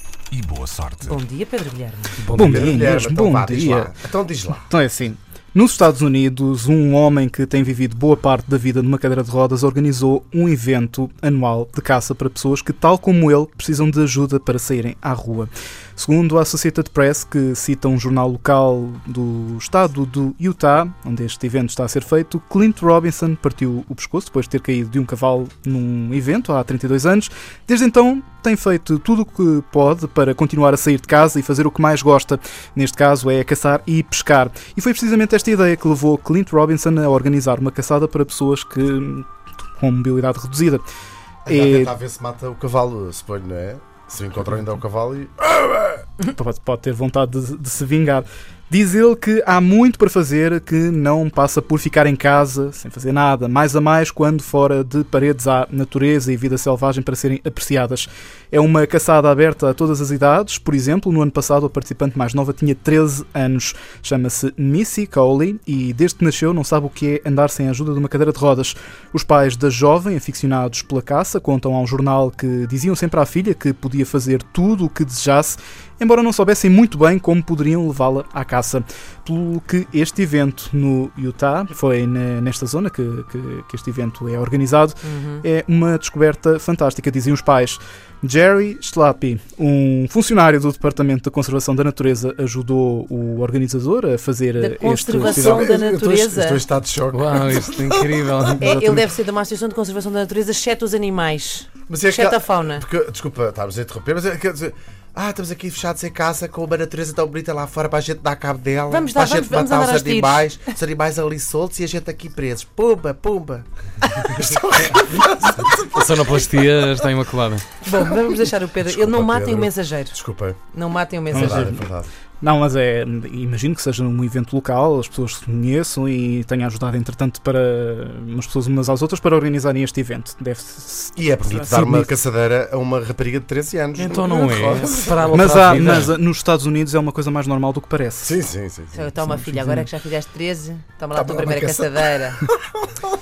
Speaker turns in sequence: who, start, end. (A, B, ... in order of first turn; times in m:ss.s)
0:00.3-0:01.2 A
0:01.0-0:02.2 B
0:02.2-0:02.8 A
0:02.3-0:04.0 C
0:02.4-0:04.7 D
0:04.7-0:40.8 C
0:41.4-0:46.0 D
0:41.5-0:41.9 C
0:46.3-1:35.7 C
1:25.0-1:25.4 B
1:34.6-1:36.6 B
1:35.2-1:38.8 D
1:37.1-1:38.7 A
1:38.6-1:42.8 B
1:38.7-1:39.0 C
1:41.9-1:56.4 D
1:48.9-1:50.6 B
1:55.9-1:57.8 A
1:57.8-2:01.7 B
1:58.8-2:00.6 D
2:01.3-2:02.1 D
2:01.3-2:01.9 C
2:02.4-2:12.1 C
2:11.2-2:15.4 D
2:14.0-2:16.1 A
2:15.3-2:18.4 C
2:18.2-2:19.2 D
2:18.9-2:22.4 B
2:19.2-2:19.9 C
2:21.1-2:23.1 D